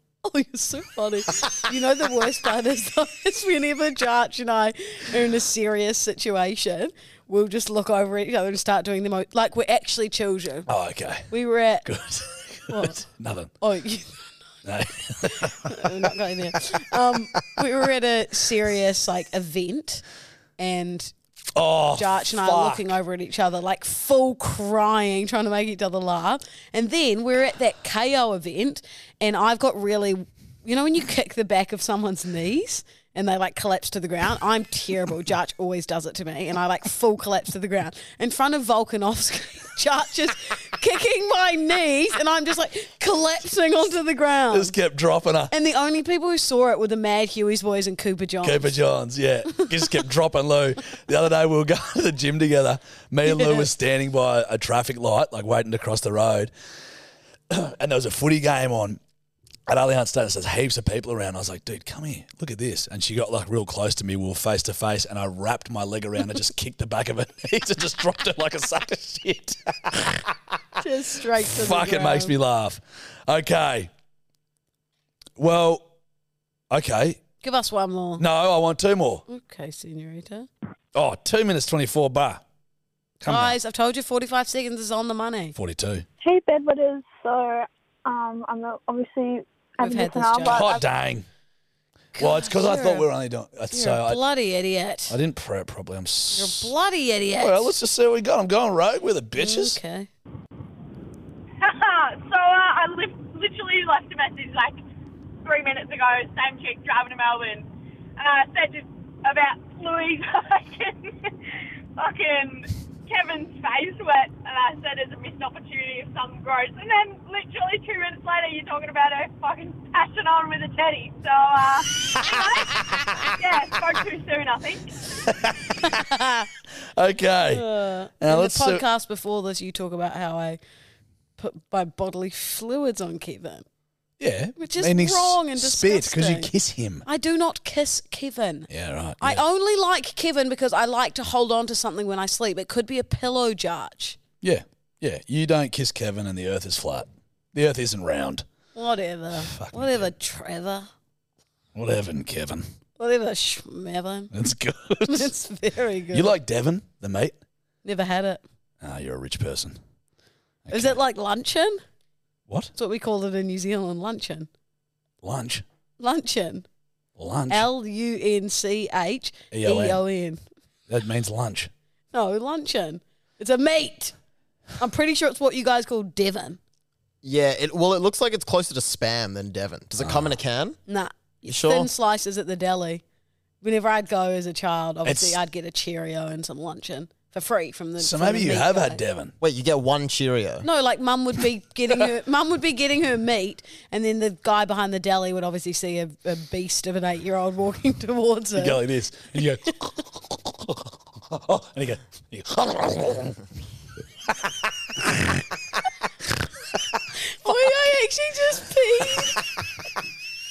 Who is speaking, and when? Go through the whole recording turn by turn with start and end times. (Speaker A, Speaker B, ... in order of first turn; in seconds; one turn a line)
Speaker A: 0.2-10.7
Speaker B: 10.7-11.3
Speaker A: 11.3-11.9
Speaker B: 11.8-13.5
Speaker A: 12.7-13.0
Speaker A: 13.6-14.3
Speaker B: 14.6-15.9
Speaker A: 15.2-20.0
Speaker A: 20.6-21.1
Speaker B: 21.5-22.8
Speaker A: 21.9-44.7
Speaker B: 44.5-45.5
Speaker A: 45.5-48.7
Speaker B: 48.4-56.5
Speaker A: 53.2-53.7
Speaker B: 57.5-59.0
Speaker B: 59.7-70.8
Speaker A: 70.8-72.3
Speaker B: 71.4-73.9
Speaker B: 75.4-75.9
Speaker B: 76.7-77.2
Speaker A: 77.4-78.2
Speaker B: 78.2-79.2
Speaker A: 79.3-80.5
Speaker B: 80.9-82.4
Speaker B: 83.2-83.5
Speaker A: 83.2-85.5
Speaker B: 85.5-86.0
Speaker C: 86.2-90.8
Speaker A: 89.8-90.7
Speaker B: 90.5-91.2
Speaker A: 92.2-93.0
Speaker B: 92.2-94.2
Speaker A: 93.7-95.2
Speaker B: 95.1-96.7
Speaker A: 96.3-97.7
Speaker B: 97.4-99.8
Speaker A: 99.4-100.1
Speaker D: 101.6-104.8
Speaker D: 105.4-111.1
Speaker D: 112.0-122.7
Speaker B: 122.2-123.0
Speaker D: 123.3-125.1
Speaker B: 125.2-125.7
Speaker A: 125.8-126.5
Speaker B: 126.9-127.6
Speaker A: 127.5-130.6
Speaker B: 128.2-128.8
Speaker A: 131.4-133.7
Speaker B: 134.2-137.1
Speaker A: 134.6-136.5
Speaker A: 137.1-138.7
Speaker B: 138.7-139.4
Speaker A: 139.2-144.2
Speaker B: 144.4-148.4
Speaker A: 148.7-150.9
Speaker B: 149.4-150.1
Speaker B: 151.7-152.7
Speaker A: 153.0-154.3
Speaker B: 154.3-155.3
Speaker A: 155.1-156.3
Speaker B: 156.1-157.3
Speaker A: 157.8-158.4
Speaker B: 158.8-159.8
Speaker B: 160.6-161.0
Speaker A: 160.7-161.8
Speaker A: 162.7-164.5
Speaker B: 165.2-165.6
Speaker A: 166.0-166.6
Speaker B: 167.2-167.7
Speaker A: 167.5-170.4
Speaker B: 169.5-170.0
Speaker B: 170.9-171.7
Speaker A: 172.1-174.1
Speaker A: 174.8-176.6
Speaker E: 177.2-180.8
Speaker B: 180.0-180.4
Speaker A: 180.8-183.0
Speaker E: 181.5-181.9
Speaker A: 183.6-189.0
Speaker B: 185.0-185.4
Speaker B: 188.0-189.3
Speaker E: 189.4-190.7
Speaker A: 190.6-198.8
Speaker B: 198.6-203.4
Speaker A: 207.4-209.3